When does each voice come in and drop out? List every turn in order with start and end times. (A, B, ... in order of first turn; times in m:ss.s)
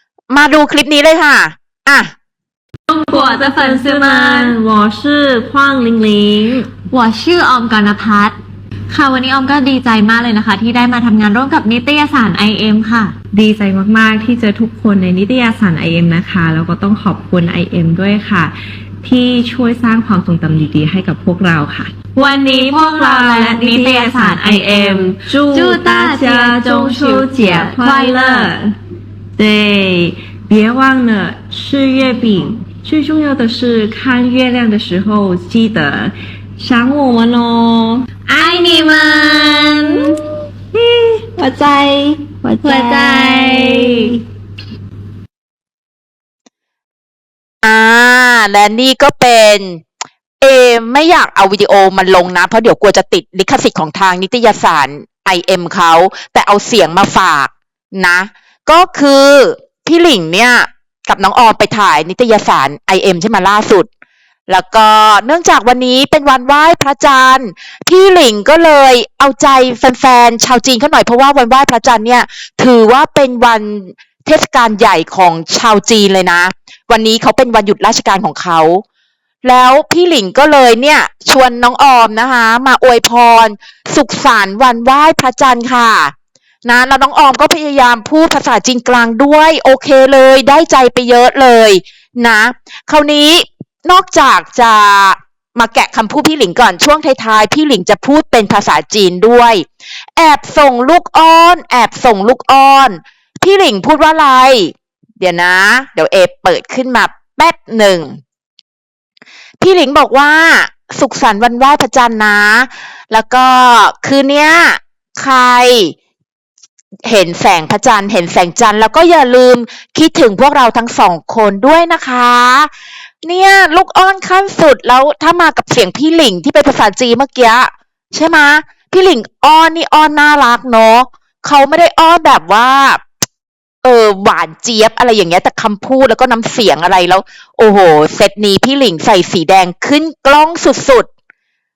0:00.3-0:02.1 A
0:02.9-0:04.6 B
0:02.9-0:06.7 C
0:06.9-0:08.4 B
0:08.9-0:13.1 B
0:13.3-0:28.7 C
0:22.7-0:28.5 B
0:29.4-0:38.0 C
0:38.3-0:40.2 B
0:39.9-0:40.2 C
0:40.7-0:44.2 C
0:42.6-0:44.1 B
0:47.6-0:49.8 A
0:50.4-1:03.9 A
1:04.5-1:18.8 A
1:19.4-1:26.1 A
1:26.6-1:39.6 A
1:40.2-1:48.2 A
1:49.6-1:55.9 A
1:57.1-2:02.7 A
2:03.2-2:13.0 A
2:13.8-2:21.1 A